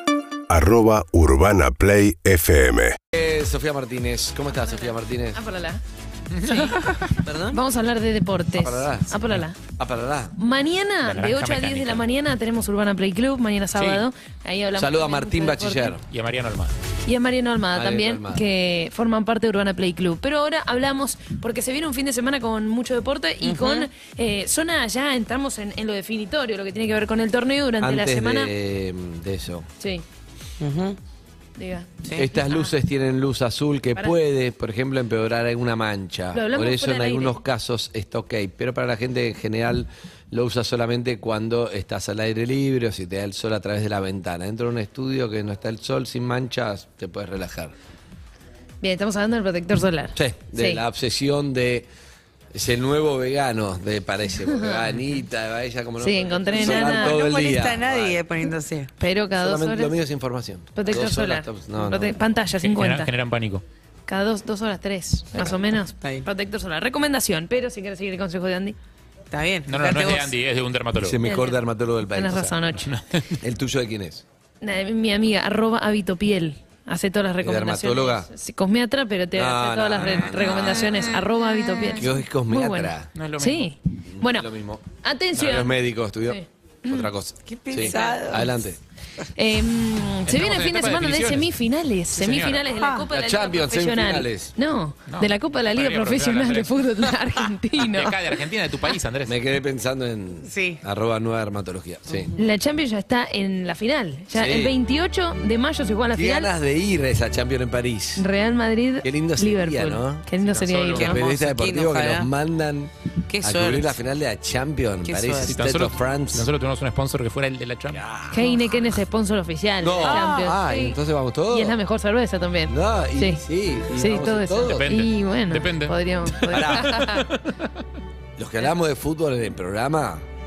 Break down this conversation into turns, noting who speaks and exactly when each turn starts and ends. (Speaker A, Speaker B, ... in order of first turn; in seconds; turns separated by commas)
Speaker A: 0.5-3.0, Speaker B: 3.1-5.4, Speaker C: 5.3-5.8, Speaker D: 6.4-6.8, Speaker C: 6.4-9.6, Speaker E: 7.2-7.6, Speaker B: 8.5-10.3, Speaker C: 10.4-16.0, Speaker D: 11.0-12.0, Speaker D: 13.7-14.1, Speaker B: 14.8-16.0, Speaker D: 16.1-16.7, Speaker C: 17.0-28.5, Speaker B: 17.7-18.4, Speaker E: 23.4-23.9, Speaker B: 27.8-29.7, Speaker E: 30.6-31.0, Speaker C: 31.6-32.7, Speaker B: 32.1-47.7, Speaker C: 36.3-37.4, Speaker C: 48.8-50.8, Speaker B: 50.1-51.9, Speaker B: 52.5-58.2, Speaker C: 56.0-57.2, Speaker E: 56.5-58.9, Speaker C: 59.0-60.0, Speaker B: 59.3-62.2, Speaker C: 60.7-63.1, Speaker D: 62.6-63.6, Speaker C: 64.1-68.8, Speaker E: 69.3-70.3, Speaker D: 69.7-71.2, Speaker B: 71.0-72.4, Speaker C: 71.2-71.6, Speaker C: 72.1-72.9, Speaker D: 72.3-73.4, Speaker B: 73.4-74.2, Speaker C: 74.6-85.7, Speaker B: 77.4-78.3, Speaker B: 79.3-81.2, Speaker B: 81.9-83.1, Speaker D: 83.1-83.7, Speaker B: 84.1-84.8, Speaker B: 85.4-88.8, Speaker C: 86.2-87.1, Speaker E: 87.5-88.5, Speaker C: 89.3-98.2, Speaker D: 90.3-91.5, Speaker D: 92.1-92.7, Speaker E: 92.7-93.0, Speaker B: 93.0-94.5, Speaker D: 95.1-96.8, Speaker D: 97.8-99.4, Speaker B: 99.2-102.3, Speaker E: 100.5-100.8, Speaker C: 102.3-106.5, Speaker B: 104.3-104.7, Speaker B: 106.1-108.3, Speaker C: 108.2-111.2, Speaker B: 109.0-110.3, Speaker D: 110.4-111.2, Speaker E: 110.7-112.3, Speaker B: 110.9-116.5, Speaker E: 113.3-114.0, Speaker E: 115.0-115.5, Speaker D: 115.5-118.0, Speaker B: 117.9-118.4, Speaker C: 118.3-121.0, Speaker B: 119.8-121.8, Speaker C: 121.5-123.4, Speaker B: 122.7-124.9, Speaker C: 123.9-127.3, Speaker D: 124.7-127.5, Speaker E: 126.5-126.8, Speaker B: 126.6-126.8, Speaker B: 128.4-130.2